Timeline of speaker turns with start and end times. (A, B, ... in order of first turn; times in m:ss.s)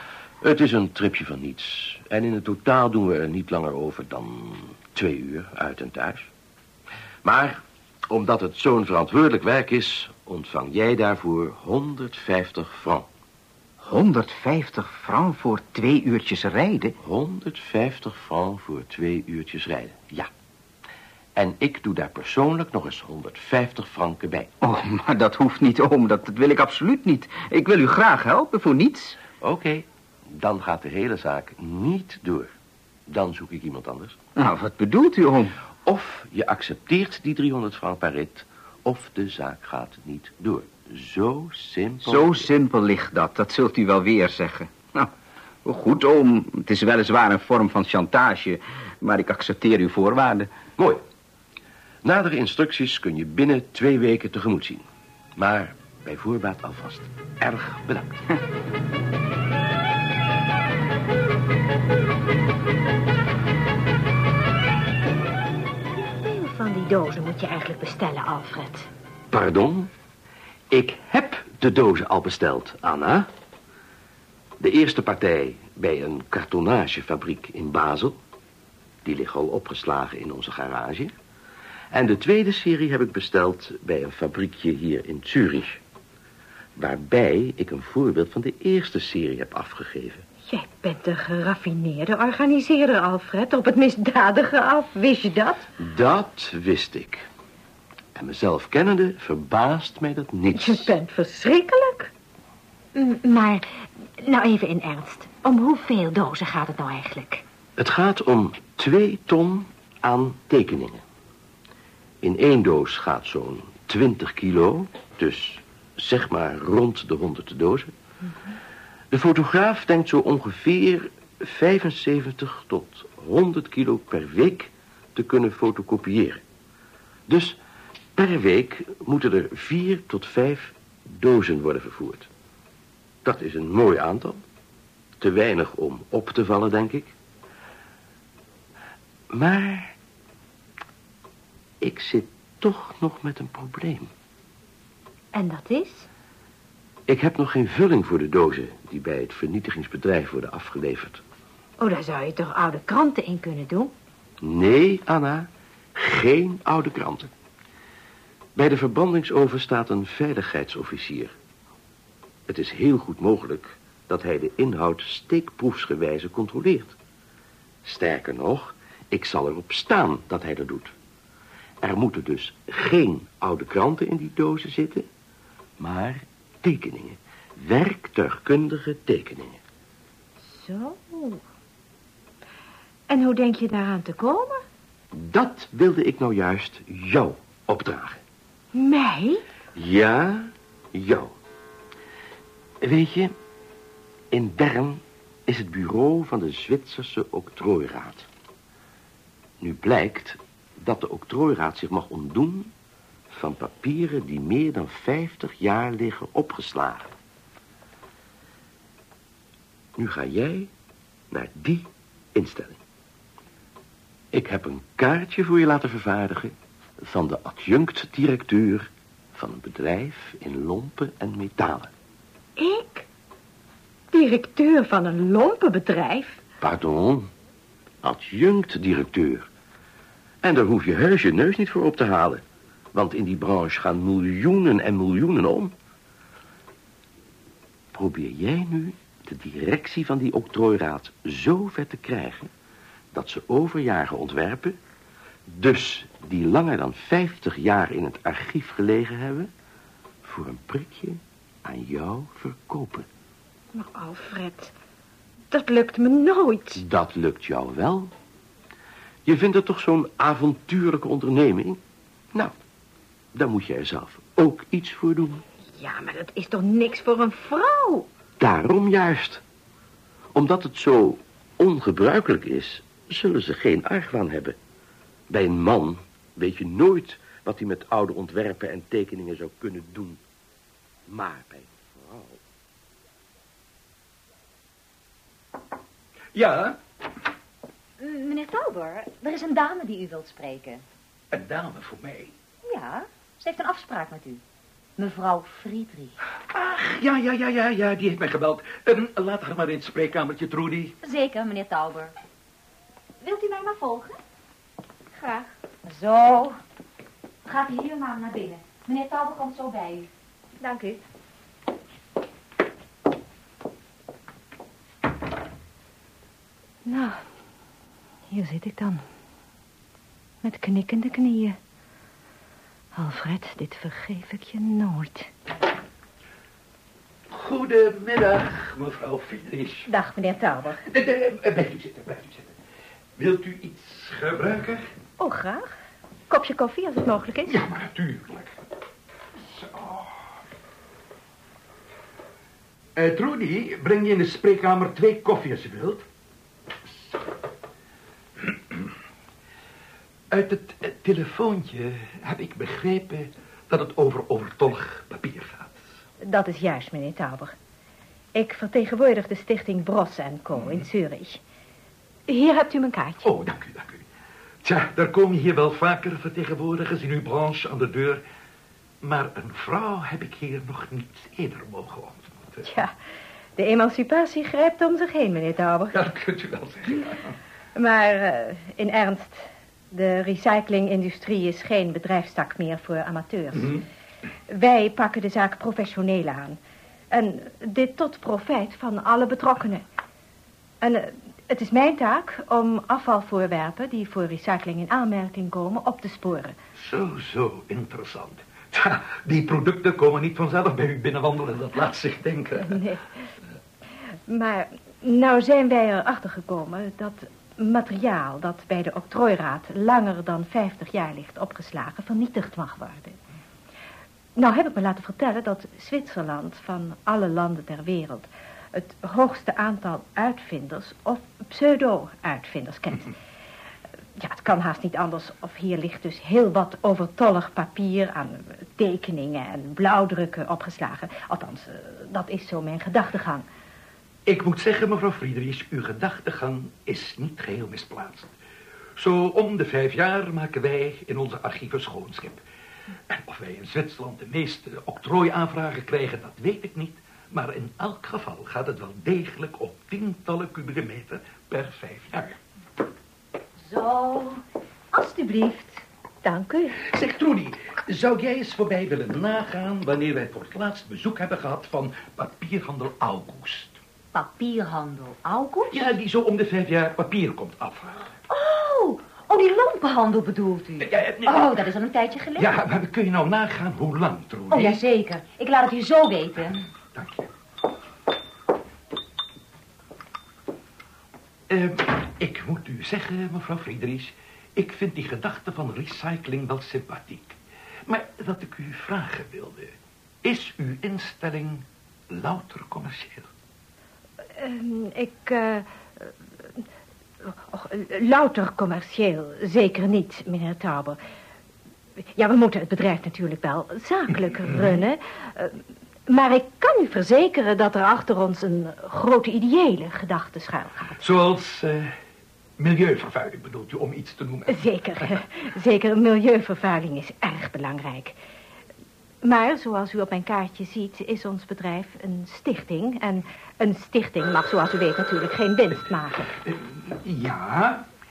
0:00.4-0:06.3 A
0:07.2-0:13.1 A
0:13.8-0:17.0 B
0:17.0-0:20.3 A
0:21.4-0:24.5 A
0:24.6-0:29.2 B
0:29.4-0:32.5 A
0:33.1-0:34.2 A
0:34.4-0:35.5 B
0:35.9-0:42.5 A
0:42.0-0:45.1 B
0:45.6-0:50.5 B
0:50.8-0:51.0 A
0:52.0-0:54.8 A
0:55.4-0:58.3 A
1:06.0-1:08.9 C
1:09.3-1:09.9 A
1:10.7-1:13.3 A
1:14.6-1:18.2 A
1:19.0-1:21.1 A
1:21.9-1:25.8 A
1:26.8-1:30.2 A
1:30.5-1:35.7 C
1:35.8-1:37.2 A
1:38.2-1:40.9 A
1:40.6-1:42.1 C
1:42.9-1:43.7 C
1:44.2-1:47.4 C
1:47.8-1:51.0 A
1:52.2-1:57.9 A
1:59.1-2:06.4 A
2:07.3-2:07.6 A
2:08.2-2:12.3 A
2:13.2-2:14.4 A
2:15.2-2:17.1 A
2:19.3-2:20.0 A
2:21.8-2:24.1 A
2:25.3-2:26.1 C
2:27.1-2:31.2 A
2:31.8-2:33.9 C
2:34.4-2:37.3 A
2:38.6-2:41.4 A
2:42.5-2:47.0 A
2:47.8-2:50.9 A
2:51.8-2:55.1 A
2:55.8-2:59.6 A
3:00.4-3:01.4 C
3:03.1-3:04.6 C
3:05.1-3:08.2 A
3:08.7-3:09.4 C
3:09.8-3:11.3 A
3:12.8-3:13.4 A
3:14.3-3:18.3 A
3:19.6-3:22.7 A
3:23.3-3:27.1 A
3:30.0-3:30.7 A
3:31.3-3:32.8 A
3:34.3-3:41.9 A
3:42.6-3:43.1 C
3:44.1-3:46.4 C
3:46.6-3:47.3 A
3:48.0-3:49.5 A
3:50.4-3:52.4 A
3:52.9-3:55.7 A
3:57.9-4:02.5 A
4:03.1-4:04.8 A
4:05.5-4:09.5 A
4:10.2-4:13.1 A
4:13.7-4:14.7 C
4:15.5-4:16.8 C
4:16.8-4:18.1 A
4:19.2-4:21.8 A
4:23.3-4:25.4 A
4:25.8-4:28.1 C
4:28.4-4:29.4 A
4:30.4-4:34.6 A
4:35.3-4:40.2 A
4:41.1-4:42.4 A
4:46.3-4:46.8 D
4:48.0-4:50.8 E
4:51.3-4:52.3 D
4:52.6-4:54.4 E
4:55.0-4:56.2 E
4:56.5-5:01.0 D
5:01.0-5:02.1 E
5:03.2-5:04.2 E
5:05.2-5:05.5 C
5:05.9-5:06.5 E
5:07.5-5:10.1 E
5:10.6-5:11.0 C
5:16.8-5:17.2 C
5:18.3-5:19.0 C
5:20.4-5:21.6 C
5:23.0-5:25.3 C
5:27.3-5:29.9 D
5:29.9-5:30.8 C
5:30.8-5:32.5 D
5:33.2-5:34.9 D
5:35.2-5:35.7 C
5:36.3-5:37.6 C
5:37.4-5:38.6 D
5:39.4-5:40.1 D
5:43.0-5:46.0 D
5:50.3-5:55.8 D
5:56.2-5:57.5 C
5:58.3-6:01.4 C
6:02.3-6:03.2 C
6:03.2-6:04.0 D
6:04.6-6:08.2 D
6:09.0-6:12.7 D
6:12.7-6:12.9 C
6:13.6-6:16.0 C
6:15.9-6:17.4 D
6:17.8-6:23.8 C
6:23.5-6:23.8 D
6:24.5-6:26.6 C
6:27.1-6:29.8 C
6:30.8-6:36.6 C
6:36.8-6:42.8 D
6:42.7-6:43.0 C
6:44.3-6:53.2 C
6:54.4-7:03.1 C
7:04.2-7:13.4 C
7:14.3-7:18.3 D
7:19.0-7:22.4 D
7:23.1-7:32.4 D
7:33.7-7:34.3 C
7:34.9-7:36.8 C
7:36.8-7:43.8 D
7:44.1-7:45.9 E
7:45.7-7:48.1 D
7:48.3-7:52.5 E
7:50.8-7:51.6 D
7:52.4-7:54.8 D
7:54.5-7:56.6 E
7:56.9-7:57.3 D
8:01.5-8:13.3 D
8:14.4-8:16.6 C
8:17.2-8:21.0 C
8:22.2-8:31.0 C
8:31.0-8:31.9 D
8:32.6-8:34.6 D
8:34.5-8:38.2 C
8:39.2-8:46.2 C
8:46.4-8:47.9 D